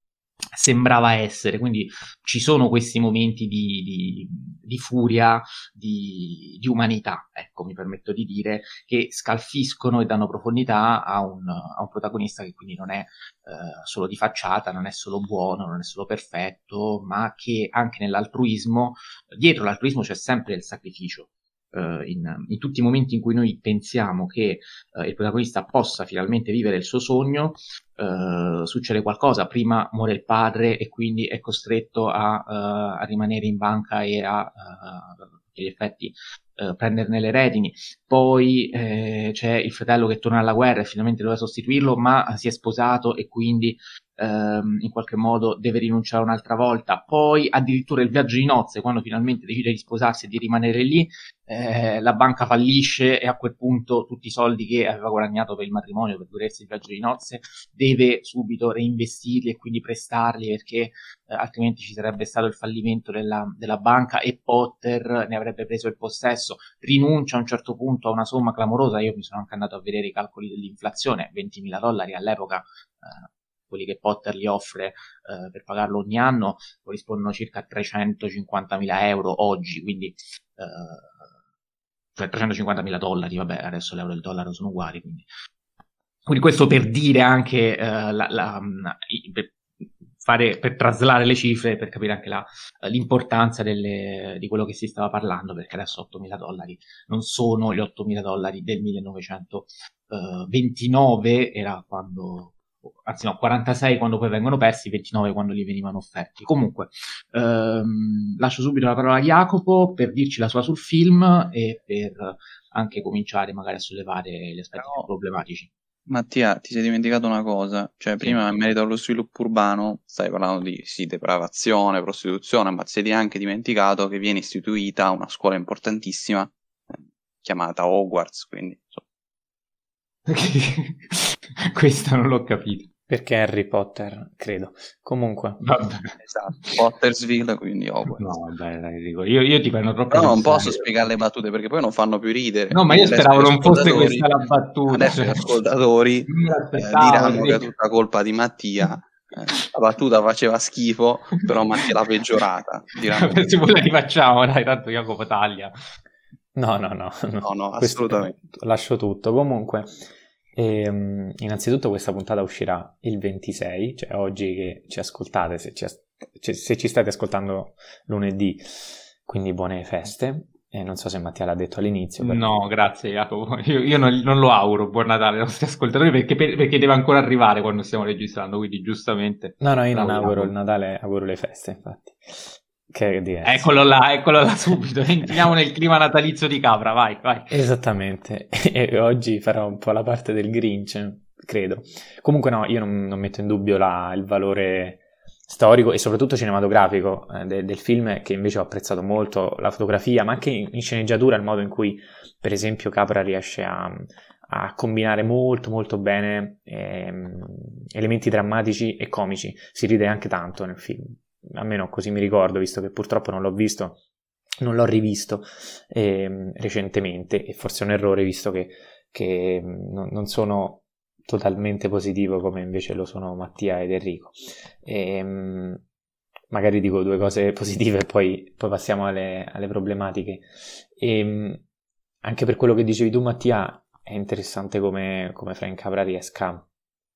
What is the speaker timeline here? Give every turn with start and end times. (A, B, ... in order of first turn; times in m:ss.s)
0:00.5-1:21.2 A
1:22.2-1:25.3 A
1:26.3-1:29.6 A
1:30.2-1:55.7 A
1:54.8-1:55.1 B
1:56.1-2:09.0 B
1:58.2-1:58.5 A
2:10.3-2:12.9 A
2:13.1-2:15.6 C
2:15.6-2:16.8 A
2:16.2-2:18.3 B
2:18.2-2:20.9 A
2:20.1-2:24.3 B
2:22.7-2:25.5 A
2:24.9-2:33.6 B
2:26.3-2:27.7 A
2:33.1-2:35.7 A
2:36.6-2:52.6 C
2:37.4-2:38.4 B
2:52.2-3:00.5 A
2:59.6-3:03.7 C
3:03.4-3:07.6 A
3:07.5-3:34.0 C
3:34.6-3:45.8 C
3:46.5-3:51.6 C
3:52.2-3:56.7 C